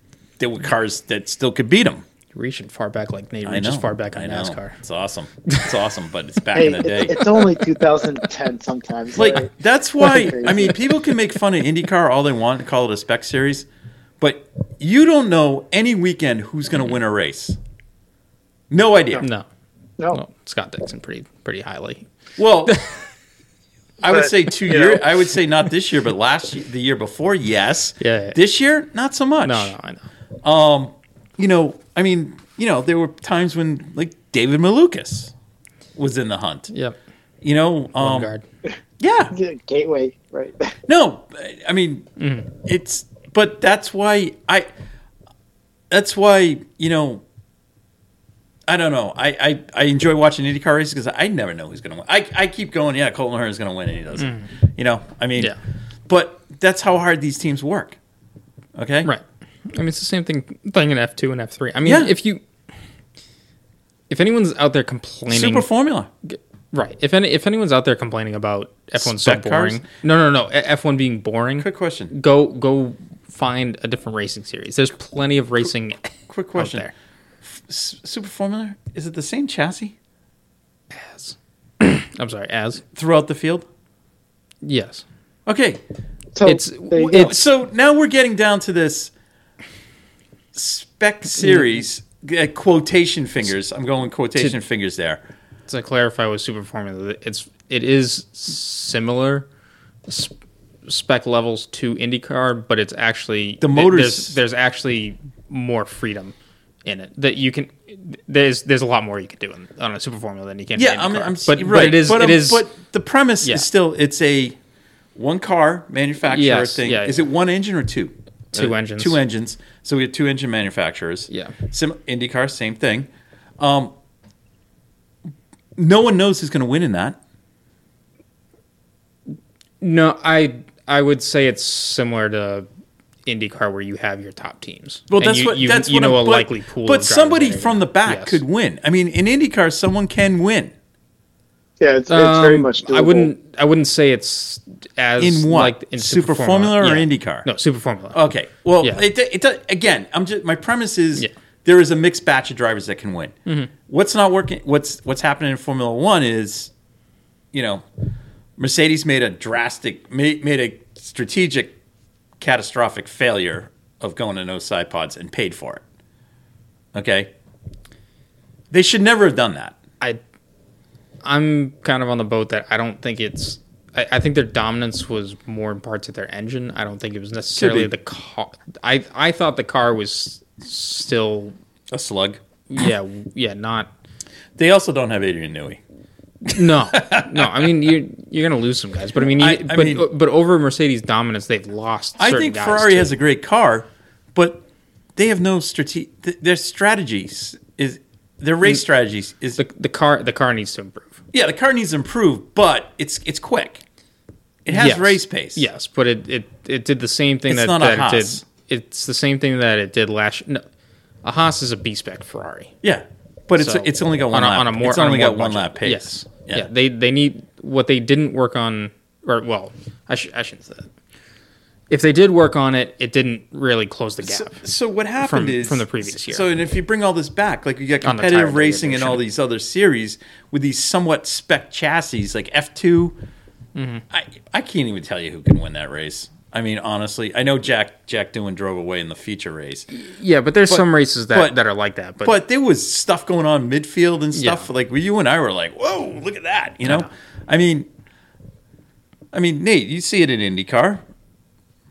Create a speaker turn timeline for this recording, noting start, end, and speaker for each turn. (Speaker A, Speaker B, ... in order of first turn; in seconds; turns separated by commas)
Speaker A: 0.4-2.0, Speaker B: 2.3-4.8, Speaker A: 3.5-7.3, Speaker C: 6.5-10.8, Speaker A: 9.1-13.7, Speaker A: 14.2-17.6, Speaker A: 18.7-19.2, Speaker B: 19.2-19.5, Speaker B: 20.1-22.1, Speaker A: 22.4-22.8, Speaker B: 22.7-23.0, Speaker A: 24.0-29.7, Speaker B: 28.0-28.4, Speaker B: 29.4-30.0, Speaker A: 30.4-35.3, Speaker A: 36.0-36.7, Speaker B: 36.7-37.0, Speaker A: 37.4-38.3, Speaker B: 38.0-38.4, Speaker A: 39.0-39.3, Speaker C: 39.3-40.7, Speaker A: 40.9-44.7, Speaker B: 42.2-42.5, Speaker A: 45.9-47.2, Speaker A: 48.7-55.5, Speaker B: 54.2-54.5, Speaker A: 56.1-58.0, Speaker A: 58.8-59.1, Speaker B: 59.0-62.4, Speaker A: 61.9-62.1, Speaker B: 64.1-65.7, Speaker A: 65.3-66.1, Speaker B: 66.3-76.9, Speaker A: 69.0-69.8, Speaker A: 71.6-72.1, Speaker A: 76.3-76.9, Speaker A: 77.4-79.9, Speaker B: 80.9-82.8, Speaker A: 82.9-83.7, Speaker B: 84.6-85.0, Speaker A: 85.5-85.8, Speaker C: 86.3-87.3, Speaker B: 86.5-87.4, Speaker A: 86.9-89.1, Speaker A: 90.5-95.2, Speaker B: 91.4-91.7, Speaker B: 95.7-99.5, Speaker B: 100.1-100.3, Speaker B: 100.9-112.7, Speaker A: 103.6-104.4, Speaker A: 110.8-114.6, Speaker A: 115.2-123.9, Speaker B: 116.3-117.2, Speaker B: 118.5-119.2, Speaker A: 125.8-127.2, Speaker B: 129.8-132.7, Speaker B: 133.3-138.4, Speaker A: 135.1-140.7, Speaker C: 141.8-143.3, Speaker B: 142.1-148.2, Speaker A: 145.2-147.5, Speaker A: 148.1-153.4, Speaker A: 153.9-156.7, Speaker A: 157.5-157.8, Speaker A: 158.6-161.7, Speaker A: 162.4-165.8, Speaker A: 166.9-167.3, Speaker A: 168.7-169.8, Speaker B: 171.2-181.6, Speaker A: 177.6-177.9, Speaker A: 181.9-182.4, Speaker B: 182.7-183.9, Speaker A: 184.6-185.8, Speaker B: 186.5-193.1, Speaker A: 186.5-187.7, Speaker A: 189.2-190.1, Speaker A: 192.2-194.6, Speaker A: 195.2-199.6, Speaker B: 199.6-201.2, Speaker A: 201.3-203.8, Speaker A: 204.7-205.7, Speaker B: 204.7-210.7, Speaker A: 207.5-208.4, Speaker B: 211.2-212.7, Speaker A: 212.8-216.7, Speaker B: 213.6-220.9, Speaker B: 221.9-224.6, Speaker A: 224.2-233.2, Speaker B: 225.2-226.5, Speaker B: 228.0-229.2, Speaker B: 233.8-234.0, Speaker A: 234.1-239.9, Speaker B: 239.9-242.3, Speaker A: 240.7-241.6, Speaker A: 242.2-247.9, Speaker B: 244.3-244.7, Speaker B: 246.8-247.1, Speaker A: 249.3-251.0